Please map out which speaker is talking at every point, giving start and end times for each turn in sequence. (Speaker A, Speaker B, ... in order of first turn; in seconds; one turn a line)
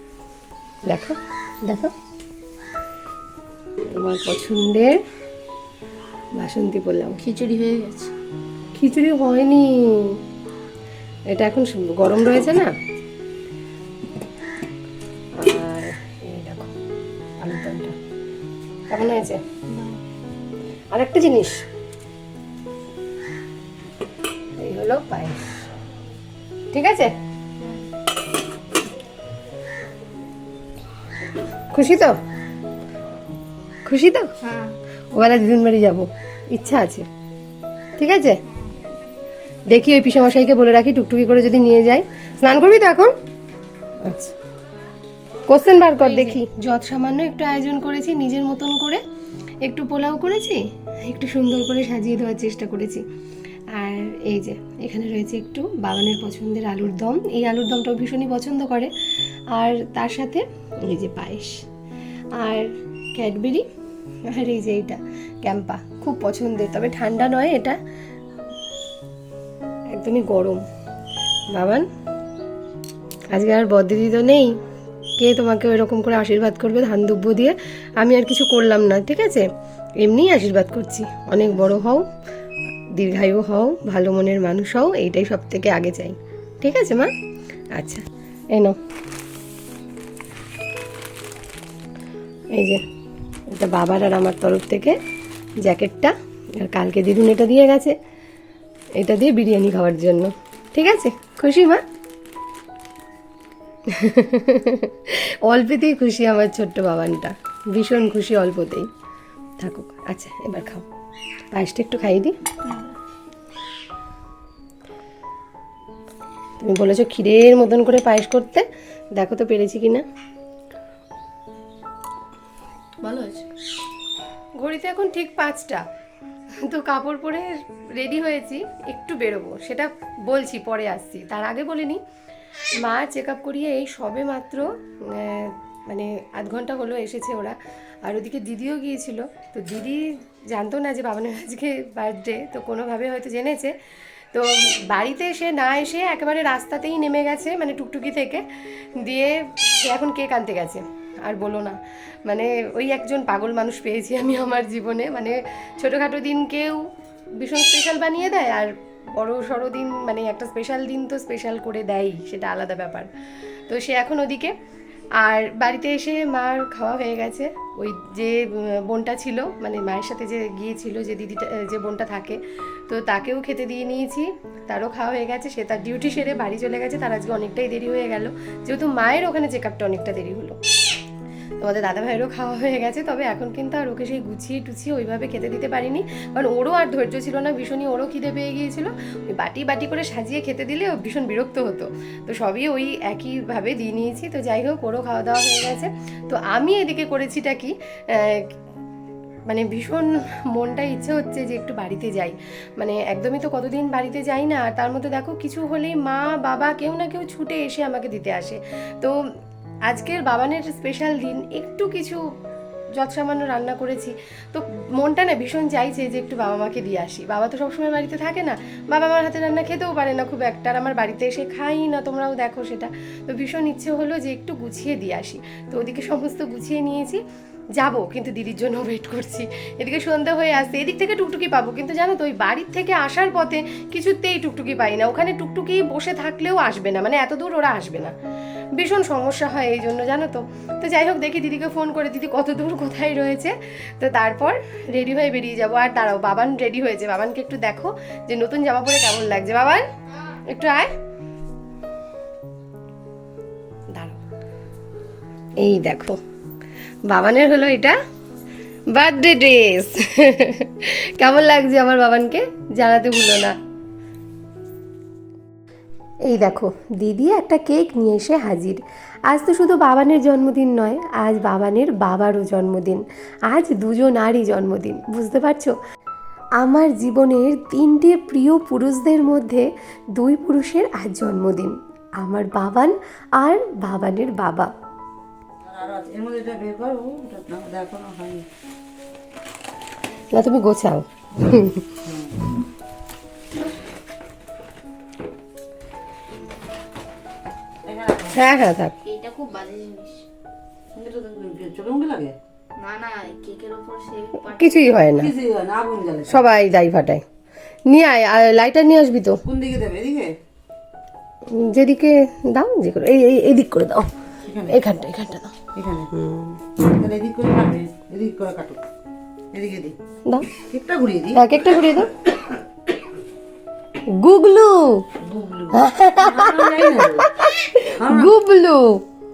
Speaker A: 0.8-1.9
Speaker A: 3.9-5.0
Speaker A: 6.4-7.2
Speaker B: 7.2-8.1
Speaker A: 8.7-10.2
Speaker A: 11.3-12.7
Speaker A: 15.4-16.7
Speaker A: 17.4-17.9
Speaker A: 18.9-19.4
Speaker A: 20.9-21.6
Speaker A: 24.6-25.5
Speaker A: 26.7-27.1
Speaker A: 31.7-32.2
Speaker A: 33.9-34.3
Speaker A: 35.1-37.0
Speaker A: 38.0-38.4
Speaker A: 39.7-43.1
Speaker A: 44.0-44.4
Speaker A: 45.5-49.0
Speaker A: 49.6-53.0
Speaker A: 53.7-58.9
Speaker A: 59.5-61.6
Speaker A: 62.4-63.6
Speaker A: 64.3-67.8
Speaker A: 69.9-70.6
Speaker A: 71.5-71.9
Speaker A: 73.3-74.6
Speaker A: 75.2-79.5
Speaker A: 80.0-82.0
Speaker A: 83.0-87.1
Speaker A: 87.8-88.8
Speaker A: 92.5-92.8
Speaker A: 93.5-95.0
Speaker A: 95.6-98.0
Speaker A: 99.0-101.8
Speaker A: 103.9-108.9
Speaker A: 109.6-110.9
Speaker A: 111.5-112.4
Speaker A: 116.6-120.0
Speaker B: 123.0-123.5
Speaker A: 124.6-125.8
Speaker A: 126.7-132.0
Speaker A: 132.8-143.7
Speaker A: 144.3-148.4
Speaker A: 149.0-163.1
Speaker A: 163.7-164.5
Speaker A: 165.2-180.6
Speaker A: 181.6-198.5
Speaker A: 199.5-209.2
Speaker A: 209.9-212.2
Speaker A: 212.9-227.2
Speaker A: 227.8-238.2
Speaker A: 238.8-250.9
Speaker A: 255.6-256.2
Speaker A: 257.1-258.0
Speaker A: 258.9-263.6
Speaker A: 266.3-275.8
Speaker A: 276.6-284.7
Speaker C: 285.6-288.5
Speaker A: 290.3-291.8
Speaker C: 292.1-292.5
Speaker C: 297.9-298.4
Speaker A: 298.3-298.9
Speaker B: 299.1-300.2
Speaker C: 300.9-302.4
Speaker B: 302.8-304.7
Speaker A: 304.4-305.3
Speaker C: 305.2-306.4
Speaker A: 306.3-307.2
Speaker A: 307.9-309.4
Speaker C: 309.4-310.4
Speaker A: 311.5-314.1
Speaker C: 314.5-314.8
Speaker A: 314.7-315.5
Speaker C: 315.7-316.1
Speaker A: 316.1-316.6
Speaker C: 316.8-318.8
Speaker C: 319.5-320.0
Speaker C: 320.5-321.5
Speaker A: 321.4-322.2
Speaker A: 324.1-325.1
Speaker C: 325.2-327.3
Speaker A: 325.7-329.0
Speaker C: 328.0-328.3